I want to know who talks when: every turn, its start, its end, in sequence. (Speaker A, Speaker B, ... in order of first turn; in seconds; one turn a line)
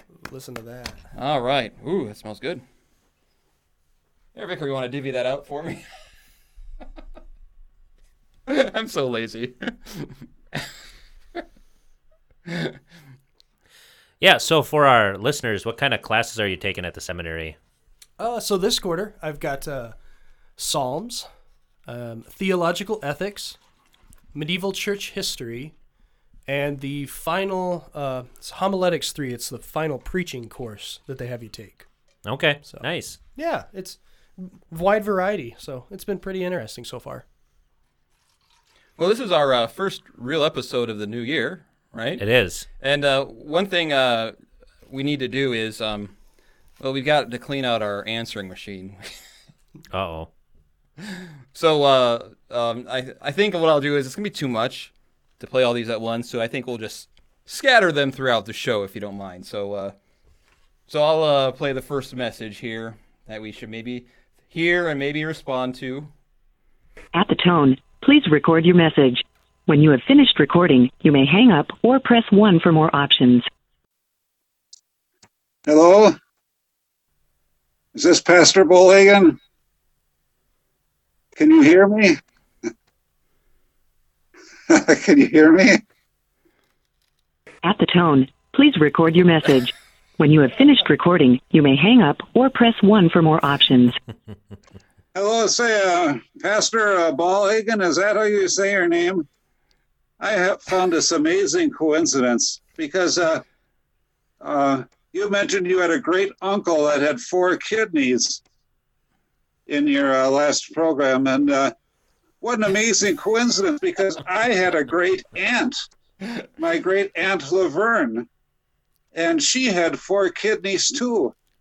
Speaker A: 0.2-1.0
Speaker B: 1.1-2.6
Speaker B: 4.3-5.8
Speaker B: 8.5-10.7
Speaker B: 12.5-12.8
Speaker C: 14.2-17.6
Speaker A: 18.2-20.0
Speaker A: 20.6-21.3
Speaker A: 21.9-23.6
Speaker A: 24.3-25.8
Speaker A: 26.5-31.9
Speaker C: 32.2-33.2
Speaker A: 32.6-37.2
Speaker B: 39.0-42.2
Speaker C: 42.2-42.7
Speaker B: 42.8-44.4
Speaker B: 44.9-46.1
Speaker B: 46.8-49.0
Speaker C: 49.9-50.3
Speaker B: 51.5-60.0
Speaker B: 60.9-66.1
Speaker D: 67.2-73.5
Speaker E: 75.7-76.2
Speaker E: 78.0-79.4
Speaker E: 81.4-82.2
Speaker E: 84.7-85.8
Speaker D: 87.6-94.0
Speaker E: 95.2-99.3
Speaker E: 100.2-103.4
Speaker E: 104.4-108.4
Speaker E: 109.7-111.7
Speaker E: 112.4-115.8
Speaker E: 116.6-118.3
Speaker E: 119.1-121.3